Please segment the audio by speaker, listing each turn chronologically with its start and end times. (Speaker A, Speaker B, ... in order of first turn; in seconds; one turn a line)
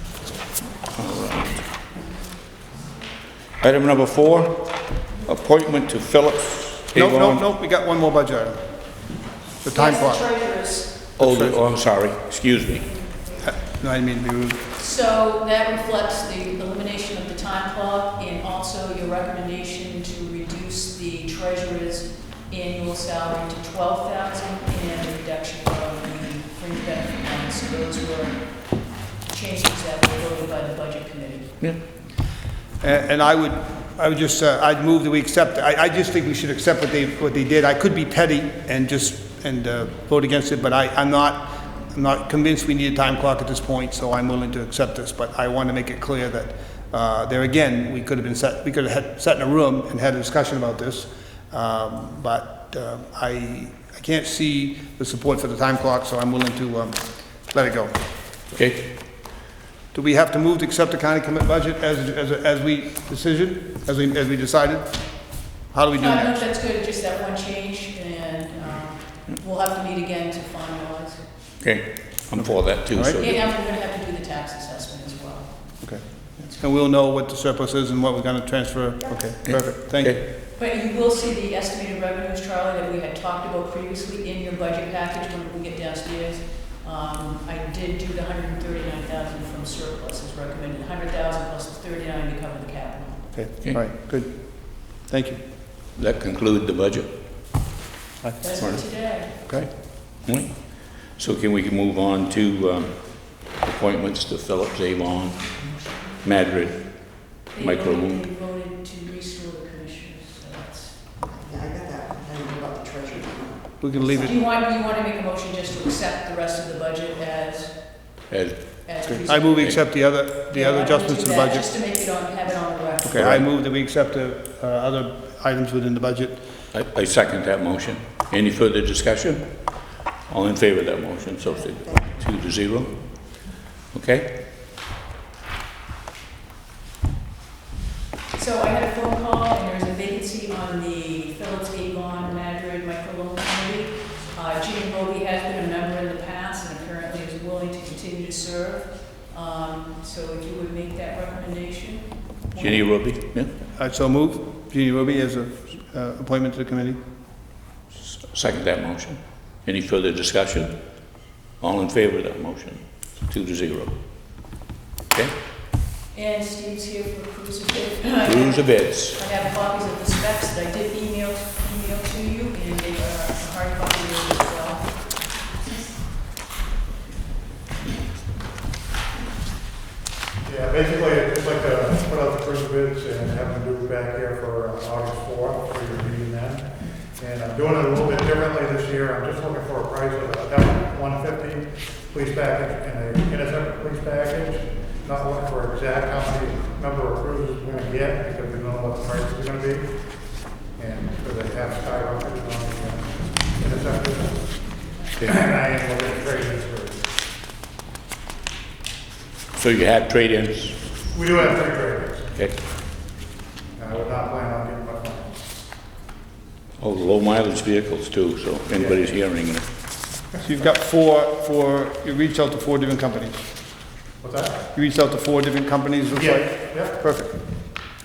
Speaker A: 0.9-1.7
Speaker A: 3.6-7.4
Speaker B: 6.9-8.9
Speaker B: 9.6-10.2
Speaker C: 9.7-11.1
Speaker A: 11.2-13.0
Speaker B: 11.2-11.6
Speaker B: 13.4-14.6
Speaker C: 14.8-31.6
Speaker B: 32.8-57.9
Speaker A: 58.5-58.9
Speaker B: 59.9-66.4
Speaker C: 65.9-71.3
Speaker A: 71.6-73.4
Speaker B: 72.9-73.2
Speaker C: 73.1-75.8
Speaker B: 75.8-80.2
Speaker A: 79.4-80.2
Speaker C: 80.5-93.3
Speaker B: 93.3-95.4
Speaker A: 95.9-97.1
Speaker B: 98.2-98.7
Speaker C: 98.4-99.3
Speaker A: 98.6-108.2
Speaker C: 107.5-111.1
Speaker D: 111.3-113.8
Speaker B: 113.8-114.3
Speaker C: 114.1-118.2
Speaker A: 118.3-119.0
Speaker C: 118.8-123.2
Speaker B: 119.2-121.7
Speaker B: 123.0-126.4
Speaker A: 123.1-123.4
Speaker A: 126.7-134.3
Speaker C: 138.3-152.9
Speaker A: 152.6-153.5
Speaker B: 153.7-157.0
Speaker A: 158.1-160.7
Speaker A: 161.6-163.9
Speaker C: 166.1-175.1
Speaker A: 168.2-169.2
Speaker E: 180.4-207.0
Speaker A: 209.5-210.9
Speaker E: 211.1-212.4
Speaker E: 213.8-215.4
Speaker A: 216.8-219.7
Speaker B: 220.4-223.5
Speaker E: 224.2-224.6
Speaker B: 224.7-227.4
Speaker E: 226.1-226.9